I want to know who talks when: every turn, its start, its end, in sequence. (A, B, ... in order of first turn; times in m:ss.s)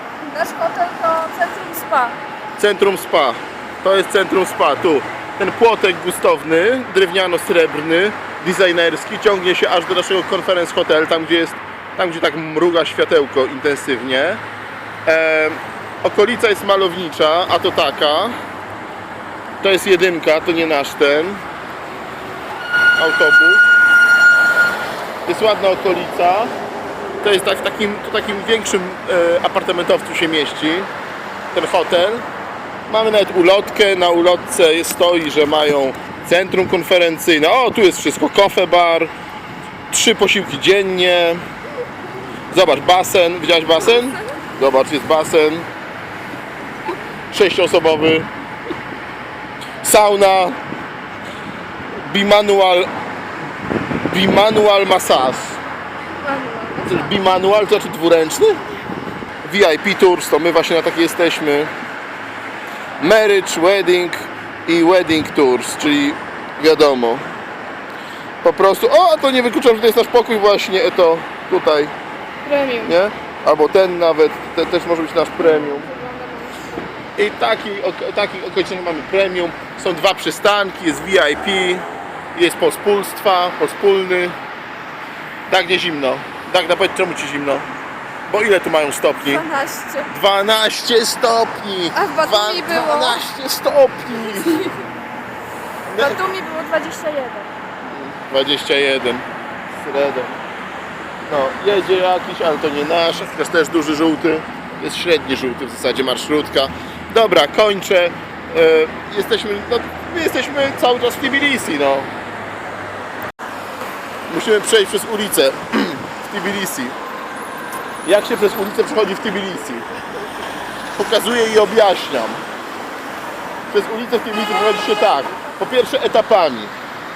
0:00.3-0:02.2 A
0:02.6-0:14.4 B
0:15.1-0:18.4 B
0:19.6-0:21.4 B
0:23.0-0:23.6 B
0:25.2-0:26.5 B
0:27.2-0:30.9 B
0:31.5-0:32.2 B
0:32.9-0:39.1 B
0:39.9-0:41.4 B
0:42.5-0:45.7 B
0:47.3-0:48.3 B
0:49.8-0:50.6 B
0:51.9-0:52.9 B
0:54.0-0:55.6 B
0:56.1-0:57.2 A
0:56.8-0:58.6 B
0:59.4-1:01.7 B
1:03.0-1:07.2 B
1:08.4-1:11.9 B
1:12.4-1:13.0 A
1:12.8-1:15.9 B
1:15.4-1:16.9 A
1:17.2-1:24.4 B
1:25.5-1:27.7 B
1:28.3-1:29.4 B
1:29.2-1:30.1 A
1:30.1-1:34.7 B
1:31.9-1:33.2 A
1:34.3-1:34.8 A
1:35.9-1:36.2 B
1:36.0-1:37.5 A
1:37.9-1:40.4 B
1:41.2-1:52.1 B
1:54.3-1:57.0 B
1:58.0-1:59.8 B
2:01.0-2:02.4 B
2:03.7-2:06.7 B
2:04.4-2:05.8 A